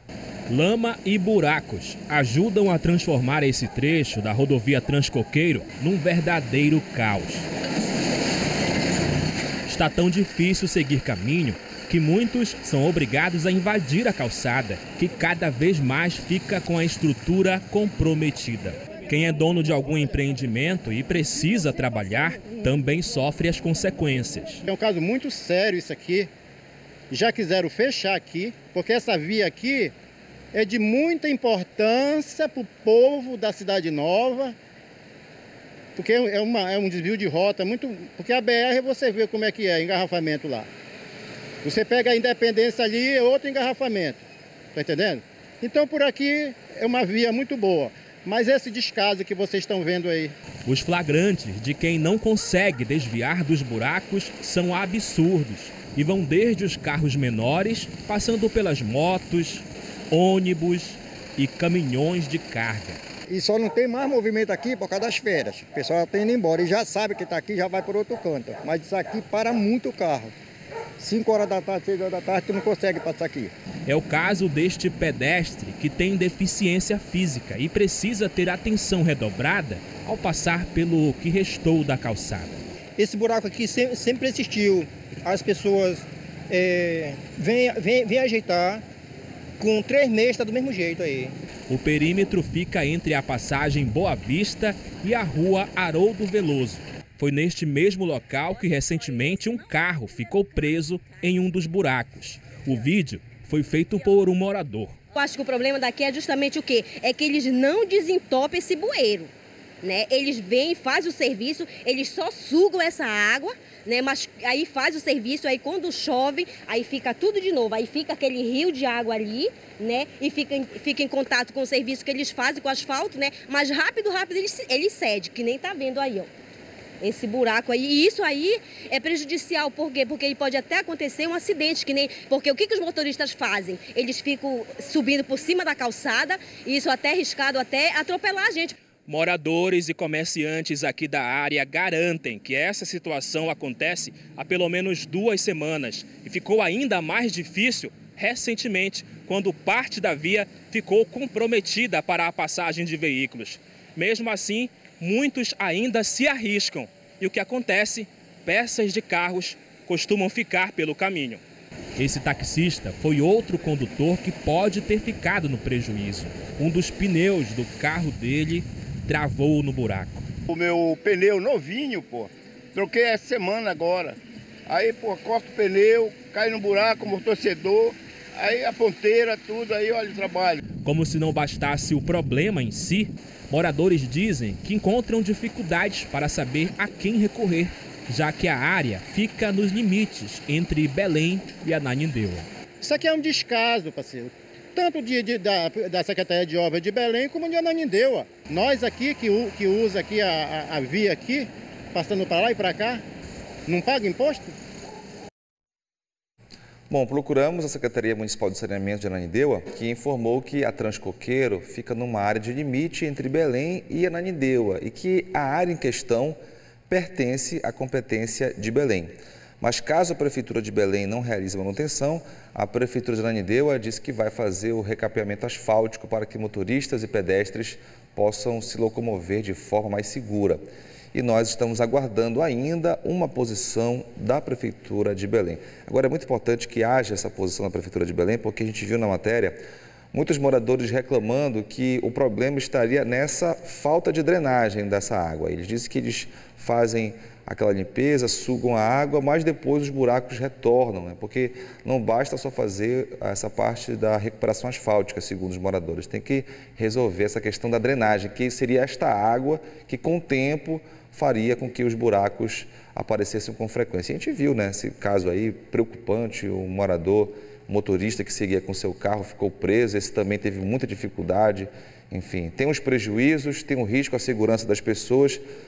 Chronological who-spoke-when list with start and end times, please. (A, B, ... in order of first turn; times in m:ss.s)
0:00.5-0:07.5 A
0:09.7-0:24.6 A
0:24.7-0:26.3 B
0:27.1-0:29.9 B
0:30.5-0:34.6 B
0:36.0-0:40.7 B
0:41.6-0:50.3 B
0:50.6-1:03.0 A
1:03.3-1:10.3 C
1:11.0-1:13.5 C
1:13.9-1:22.6 A
1:23.0-1:28.8 D
1:29.6-1:31.4 D
1:31.7-1:45.0 A
1:45.1-1:49.3 E
1:49.8-2:06.3 E
2:07.0-2:18.8 E
2:19.1-2:41.4 A
2:42.0-2:50.3 A
2:50.5-2:54.2 F
2:54.7-3:00.6 F
3:00.7-3:12.5 A
3:12.8-3:23.0 B
3:23.7-3:24.6 B
3:26.9-3:36.4 G
3:36.9-3:50.6 G
3:51.1-3:59.6 G
4:00.1-4:35.4 G